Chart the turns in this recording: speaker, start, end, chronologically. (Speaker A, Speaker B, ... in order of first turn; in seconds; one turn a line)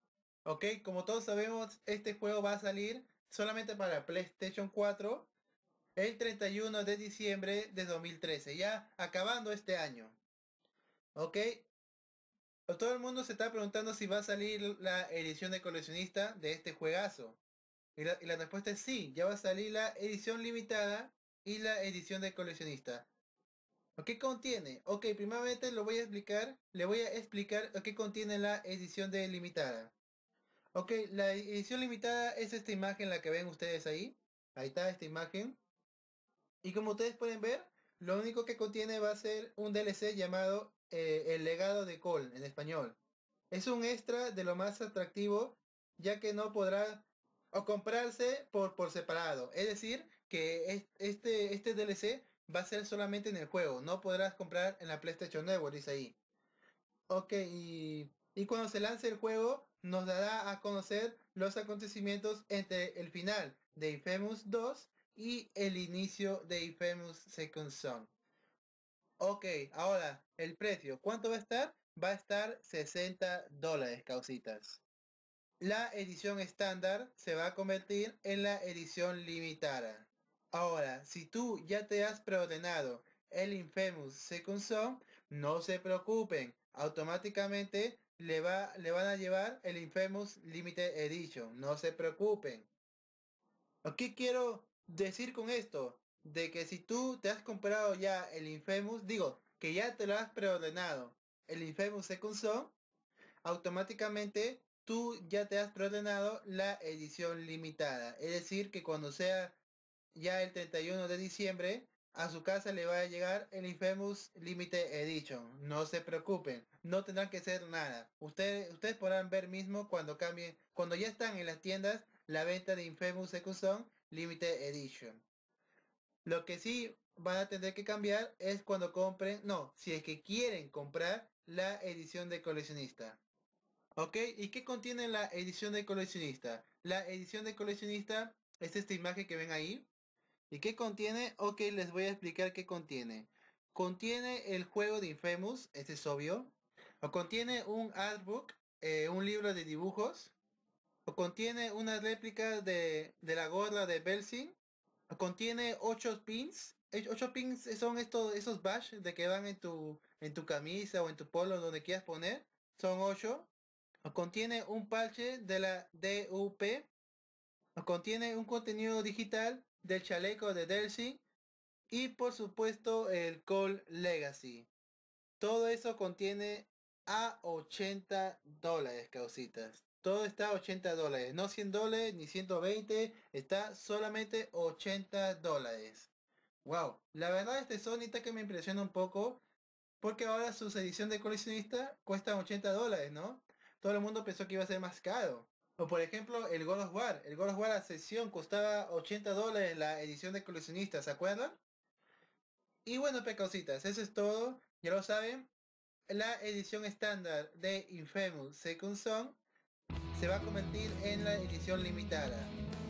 Speaker A: 0.4-5.3
Speaker A: 6.0-10.2
Speaker A: 11.1-11.7
Speaker A: 12.7-17.4
Speaker A: 17.9-23.1
Speaker A: 24.0-29.9
Speaker A: 30.7-35.6
Speaker A: 36.6-43.0
Speaker A: 43.5-56.1
Speaker A: 57.1-68.1
Speaker A: 69.2-74.8
Speaker A: 75.6-92.7
Speaker A: 93.8-102.8
Speaker A: 103.4-109.6
Speaker A: 110.1-125.2
Speaker A: 126.2-133.2
Speaker A: 133.9-139.9
Speaker A: 140.5-150.3
Speaker A: 151.1-154.6
Speaker A: 155.1-163.5
Speaker A: 164.1-166.9
Speaker A: 167.8-171.2
Speaker A: 171.9-174.7
Speaker A: 175.4-186.1
Speaker A: 186.6-189.4
Speaker A: 190.0-201.6
Speaker A: 202.8-205.5
Speaker A: 206.1-209.4
Speaker A: 210.1-212.5